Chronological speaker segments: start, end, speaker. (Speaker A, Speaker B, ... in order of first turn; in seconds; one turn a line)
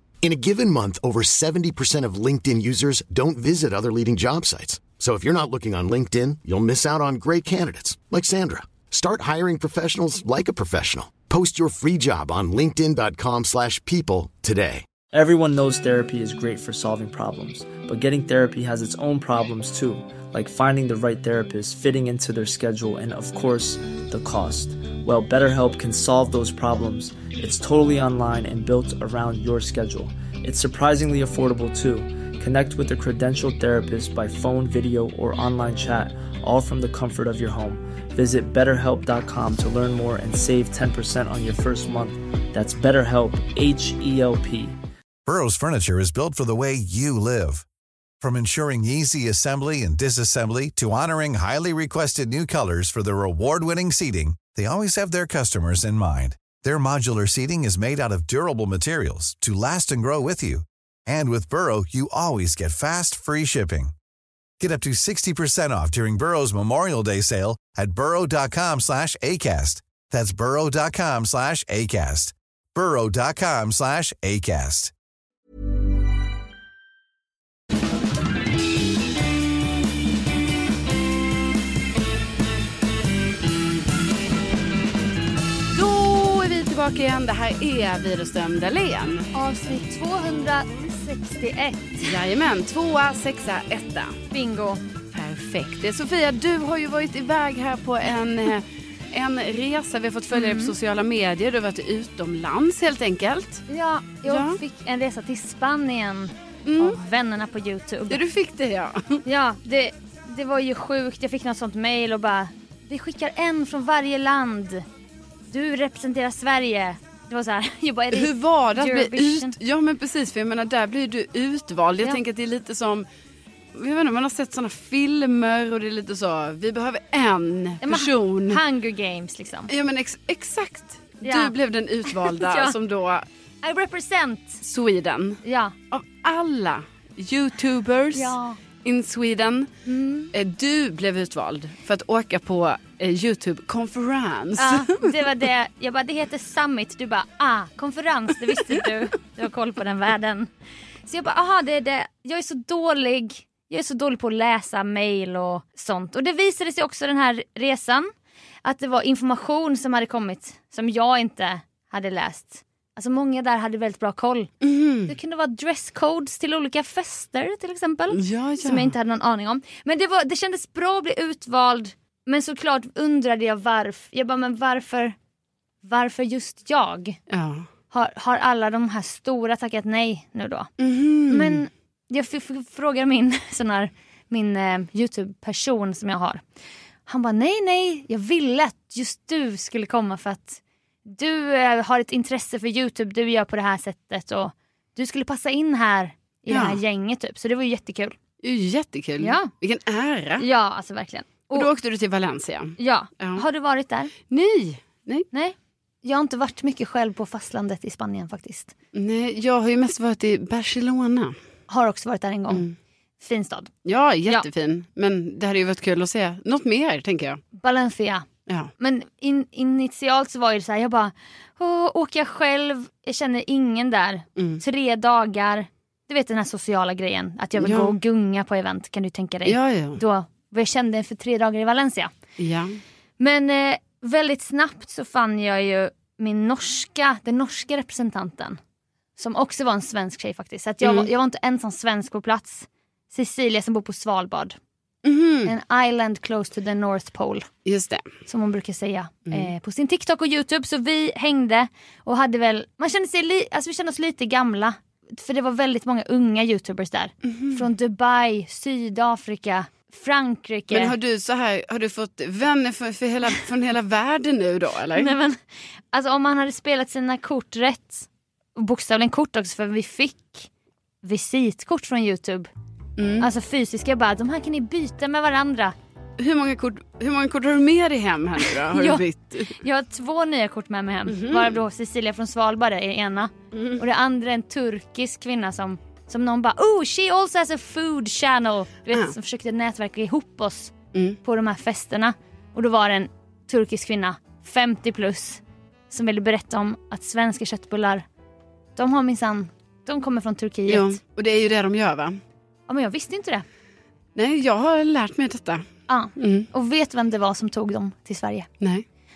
Speaker A: 0.2-14.9
Speaker B: 15.1-44.8
Speaker C: 45.3-47.6
Speaker C: 48.2-63.9
Speaker C: 64.6-74.9
Speaker D: 85.7-89.3
Speaker E: 89.3-92.1
Speaker D: 92.0-94.2
Speaker E: 94.3-94.8
Speaker D: 95.1-103.7
Speaker E: 100.3-100.7
Speaker E: 103.7-108.2
Speaker D: 104.2-104.6
Speaker D: 106.7-107.0
Speaker D: 108.1-109.2
Speaker E: 109.3-114.8
Speaker E: 115.5-119.5
Speaker D: 118.1-123.1
Speaker D: 123.7-128.6
Speaker E: 127.8-129.7
Speaker D: 129.7-133.2
Speaker E: 131.2-131.5
Speaker E: 132.1-132.7
Speaker E: 133.6-134.6
Speaker D: 134.6-139.7
Speaker E: 135.4-135.7
Speaker E: 138.1-138.6
Speaker E: 139.9-140.3
Speaker D: 140.3-145.2
Speaker E: 144.6-150.5
Speaker E: 151.1-158.1
Speaker E: 158.6-164.5
Speaker D: 164.6-165.1
Speaker E: 165.1-175.2
Speaker D: 168.1-168.9
Speaker E: 175.8-177.2
Speaker D: 177.3-177.7
Speaker E: 177.9-180.7
Speaker D: 180.8-181.6
Speaker E: 181.3-186.4
Speaker E: 187.1-198.2
Speaker D: 196.5-196.8
Speaker D: 198.4-200.4
Speaker E: 199.2-199.5
Speaker E: 200.4-201.7
Speaker D: 201.5-203.4
Speaker E: 202.8-204.1
Speaker D: 204.3-205.3
Speaker E: 205.3-208.7
Speaker D: 208.9-211.4
Speaker E: 211.7-212.7
Speaker D: 212.5-212.8
Speaker E: 213.2-213.7
Speaker D: 213.8-217.4
Speaker E: 217.6-218.3
Speaker E: 218.8-232.1
Speaker D: 224.4-224.6
Speaker D: 227.6-228.0
Speaker D: 229.5-230.0
Speaker D: 232.4-232.8
Speaker E: 233.2-238.6
Speaker E: 239.2-244.6
Speaker D: 240.8-241.1
Speaker D: 245.0-245.5
Speaker E: 245.4-247.5
Speaker D: 247.7-248.1
Speaker E: 248.3-261.0
Speaker D: 257.3-257.6
Speaker D: 260.7-265.1
Speaker E: 264.9-265.4
Speaker E: 265.9-270.5
Speaker E: 271.0-272.5
Speaker D: 273.0-273.3
Speaker E: 273.2-275.7
Speaker D: 276.2-279.6
Speaker E: 278.7-290.7
Speaker D: 281.1-281.6
Speaker D: 283.5-283.8
Speaker D: 290.9-291.2
Speaker E: 291.2-298.1
Speaker E: 298.8-301.0
Speaker D: 300.7-302.2
Speaker E: 302.7-303.4
Speaker D: 304.1-305.7
Speaker E: 305.9-308.5
Speaker D: 306.2-306.5